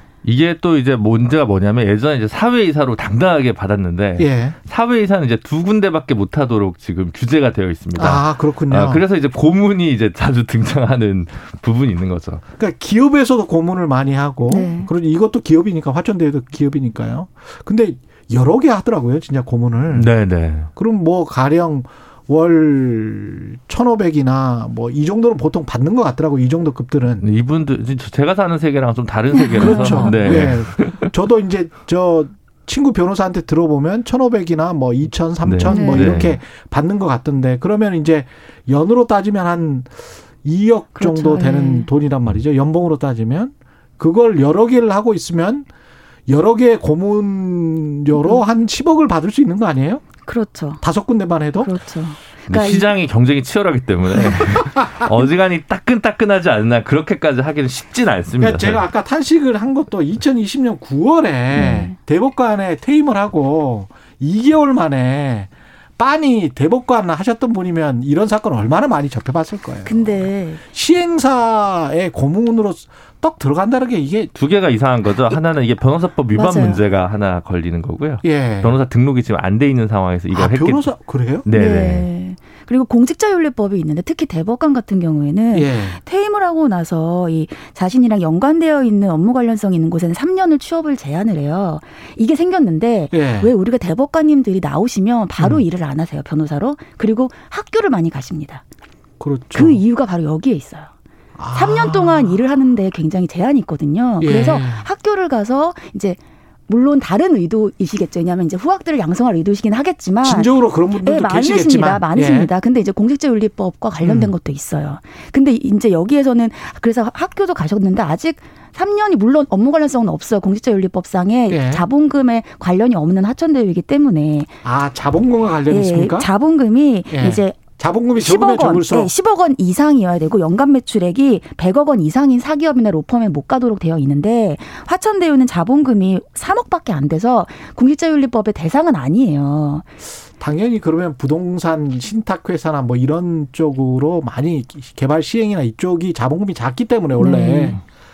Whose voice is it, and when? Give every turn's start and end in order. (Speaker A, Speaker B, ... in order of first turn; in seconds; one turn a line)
Speaker A: 0.2-12.4
Speaker B: 4.2-4.6
Speaker B: 7.9-9.0
Speaker B: 12.6-20.1
Speaker C: 14.5-14.9
Speaker A: 19.9-20.7
Speaker B: 20.8-27.2
Speaker A: 27.2-31.1
Speaker C: 29.3-30.5
Speaker B: 29.6-45.7
Speaker A: 35.4-36.4
Speaker C: 35.6-36.3
Speaker C: 40.9-41.9
Speaker B: 46.3-50.0
Speaker C: 48.1-48.4
Speaker C: 50.2-50.8
Speaker B: 50.8-51.8
Speaker C: 51.6-52.9
Speaker A: 52.5-58.9
Speaker C: 54.1-54.4
Speaker B: 58.4-74.3
Speaker C: 61.5-62.0
Speaker C: 69.8-70.6
Speaker A: 74.3-82.1
Speaker C: 76.3-76.8
Speaker B: 78.2-78.8
Speaker B: 80.3-81.5
Speaker C: 81.5-98.6
Speaker B: 85.5-86.0
Speaker B: 93.1-93.5
Speaker B: 95.4-95.6
Speaker B: 99.2-99.8
Speaker C: 99.5-100.9
Speaker B: 101.4-102.4
Speaker C: 101.5-124.5
Speaker B: 104.2-104.9
Speaker B: 110.2-112.5
Speaker B: 114.0-114.3
Speaker B: 121.5-121.8
Speaker B: 124.6-126.3
Speaker C: 125.7-127.6
Speaker B: 127.1-129.1
Speaker C: 128.2-139.9
Speaker B: 140.4-147.8
Speaker C: 147.1-147.8